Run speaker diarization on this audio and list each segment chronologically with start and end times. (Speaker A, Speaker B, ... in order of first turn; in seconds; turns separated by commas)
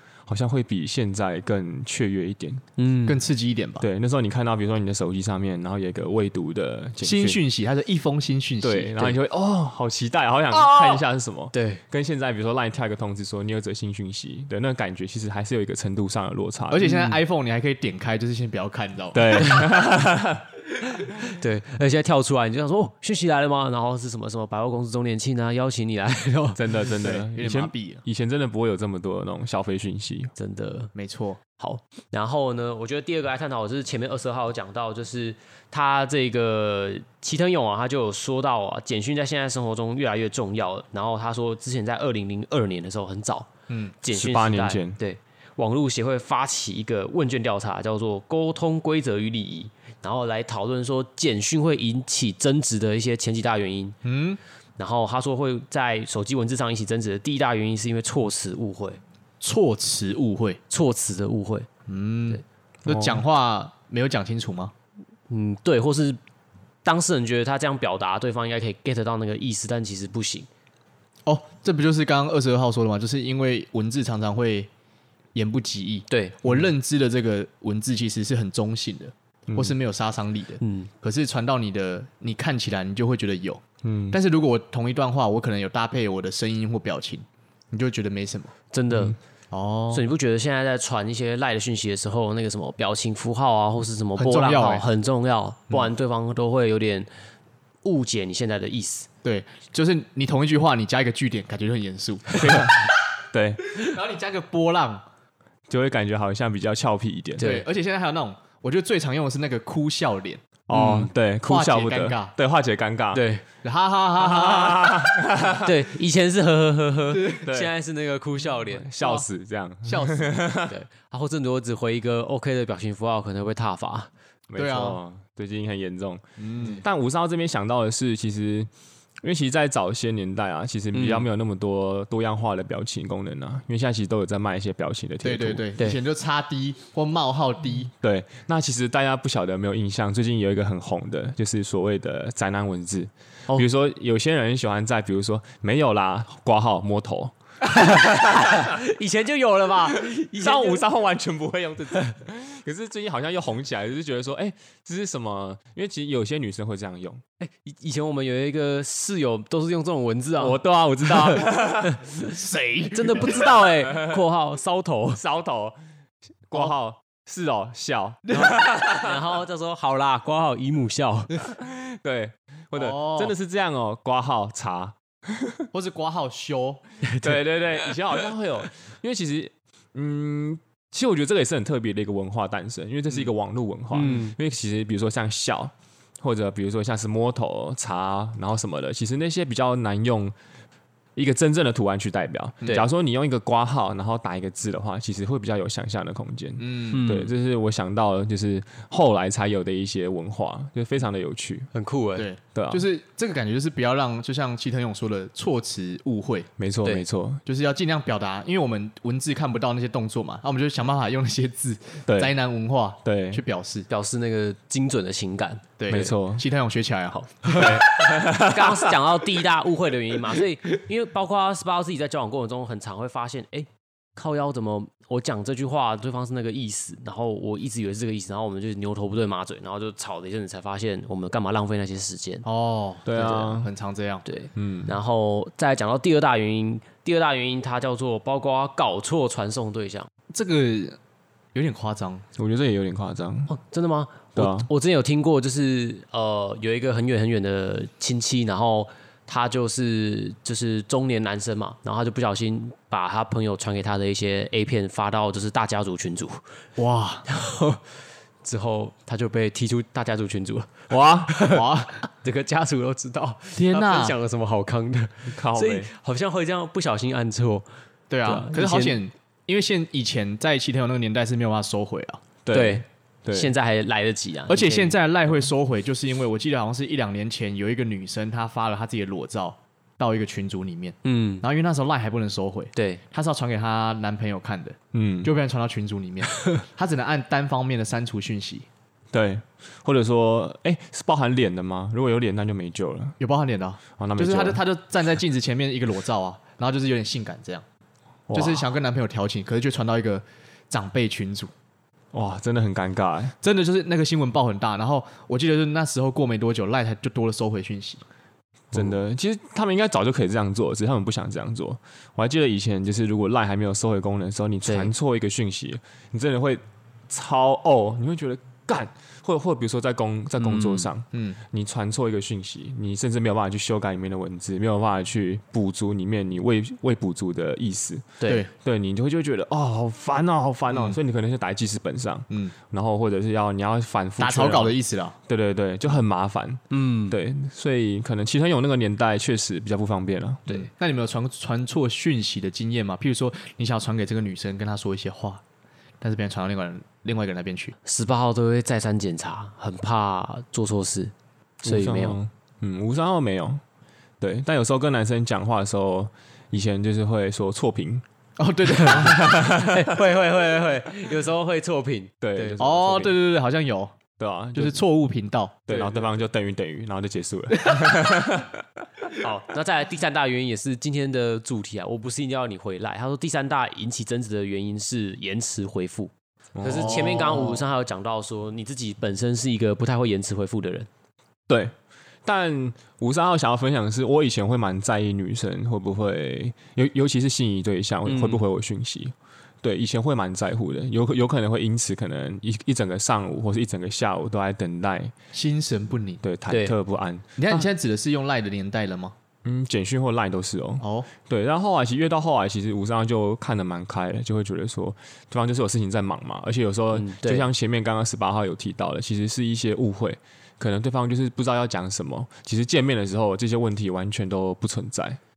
Speaker A: 0.3-2.6, Speaker B: 2.8-3.2, Speaker C: 3.0-3.9, Speaker A: 3.8-7.4, Speaker C: 7.0-9.2, Speaker A: 8.6-16.8, Speaker C: 10.5-11.0, Speaker B: 11.5-11.8, Speaker C: 16.7-19.7, Speaker B: 16.8-17.2, Speaker A: 19.1-20.4, Speaker B: 21.0-26.6, Speaker A: 26.6-30.3, Speaker C: 26.9-28.0, Speaker B: 30.4-30.9, Speaker C: 30.9-31.4, Speaker B: 31.6-43.5, Speaker C: 43.7-44.0, Speaker B: 44.0-54.0, Speaker A: 44.1-45.0, Speaker C: 54.0-54.4, Speaker B: 54.8-59.0, Speaker C: 59.4-60.6, Speaker B: 60.7-61.7, Speaker C: 61.9-64.7, Speaker A: 62.9-63.2, Speaker B: 65.3-66.2, Speaker B: 66.8-70.5, Speaker C: 71.2-74.7, Speaker C: 75.3-88.5, Speaker B: 76.1-76.4, Speaker A: 79.5-79.7, Speaker B: 80.6-80.9, Speaker A: 83.8-84.2, Speaker B: 88.7-89.2, Speaker C: 89.5-90.0, Speaker B: 89.9-97.1, Speaker C: 94.2-94.8, Speaker B: 97.8-99.1, Speaker C: 99.2-102.9, Speaker A: 102.3-102.7, Speaker A: 103.3-103.7, Speaker C: 103.8-105.0, Speaker A: 105.7-107.5, Speaker B: 107.4-107.7, Speaker C: 107.4-110.5, Speaker A: 110.7-113.2, Speaker B: 110.7-111.1, Speaker C: 111.4-112.3, Speaker B: 113.1-113.4, Speaker C: 113.6-115.1, Speaker A: 114.2-115.7, Speaker B: 115.6-118.9, Speaker C: 117.1-117.5, Speaker A: 117.4-117.7, Speaker A: 118.7-120.8, Speaker C: 119.0-119.3, Speaker C: 119.8-120.4, Speaker B: 120.7-124.1, Speaker A: 124.5-128.7, Speaker C: 124.6-125.0, Speaker C: 126.4-126.8, Speaker A: 129.2-135.7, Speaker B: 130.9-131.3, Speaker C: 135.2-137.9, Speaker A: 138.0-147.3, Speaker B: 147.6-150.8, Speaker A: 150.1-157.2, Speaker B: 157.4-162.3, Speaker A: 160.4-162.0, Speaker C: 162.2-163.5, Speaker B: 162.9-165.2, Speaker A: 163.8-164.2, Speaker A: 165.1-165.8, Speaker A: 166.5-169.1, Speaker B: 168.3-171.4, Speaker A: 171.4-175.7, Speaker C: 172.7-173.3, Speaker C: 175.7-176.8, Speaker B: 177.0-177.4, Speaker A: 177.2-190.3, Speaker B: 183.9-184.3, Speaker A: 191.2-201.7, Speaker C: 196.6-197.1, Speaker B: 196.9-197.3, Speaker B: 201.7-202.3, Speaker C: 202.2-206.5, Speaker A: 202.5-202.8, Speaker A: 206.6-207.4, Speaker C: 207.4-213.9, Speaker A: 212.1-212.3, Speaker A: 213.0-213.4, Speaker B: 213.9-215.6, Speaker C: 215.8-217.7, Speaker A: 215.9-216.4, Speaker B: 217.4-232.4, Speaker A: 217.5-218.9, Speaker C: 232.4-234.2, Speaker A: 233.1-233.7, Speaker B: 234.2-240.1, Speaker A: 234.6-235.0, Speaker C: 240.3-241.0, Speaker C: 241.5-242.2, Speaker A: 242.3-243.5, Speaker B: 243.5-256.4, Speaker A: 244.3-244.7, Speaker C: 256.8-257.2, Speaker B: 257.3-257.8, Speaker B: 258.4-260.7, Speaker A: 260.9-261.3, Speaker B: 261.2-267.7, Speaker C: 261.4-262.0, Speaker C: 263.5-264.2, Speaker A: 265.3-265.9, Speaker C: 268.1-272.2, Speaker B: 268.2-269.0, Speaker A: 272.4-273.5, Speaker B: 272.5-275.0, Speaker C: 274.5-288.7, Speaker B: 281.0-281.4, Speaker B: 282.7-283.0, Speaker A: 284.9-285.3, Speaker A: 289.1-293.2, Speaker C: 293.2-297.6, Speaker A: 294.0-294.6, Speaker A: 298.3-298.6, Speaker C: 298.3-301.5, Speaker A: 302.1-303.4, Speaker C: 303.4-308.0, Speaker A: 308.7-334.8, Speaker B: 314.7-314.9, Speaker B: 320.4-320.9, Speaker C: 321.1-321.4, Speaker C: 328.2-328.5, Speaker C: 330.7-331.0, Speaker C: 332.3-332.6, Speaker C: 334.2-335.2, Speaker A: 335.3-340.5, Speaker B: 336.7-337.2, Speaker C: 340.5-345.4, Speaker C: 346.0-347.7, Speaker B: 347.9-351.1, Speaker A: 351.6-353.6, Speaker B: 351.6-352.2, Speaker A: 354.2-358.0, Speaker C: 358.4-359.2, Speaker B: 358.7-362.6, Speaker A: 358.8-359.9, Speaker A: 362.2-363.2, Speaker C: 362.6-363.9, Speaker A: 364.2-364.8, Speaker C: 364.5-365.7, Speaker A: 365.7-368.6, Speaker B: 365.7-366.0, Speaker B: 369.2-380.9, Speaker A: 376.6-377.5, Speaker C: 376.7-377.6, Speaker A: 381.5-381.7, Speaker A: 382.2-395.1, Speaker B: 388.1-388.4, Speaker C: 395.3-396.2, Speaker A: 396.2-397.7, Speaker B: 396.5-396.7, Speaker C: 397.4-399.1, Speaker A: 399.4-415.2, Speaker C: 400.8-401.1, Speaker B: 406.9-407.5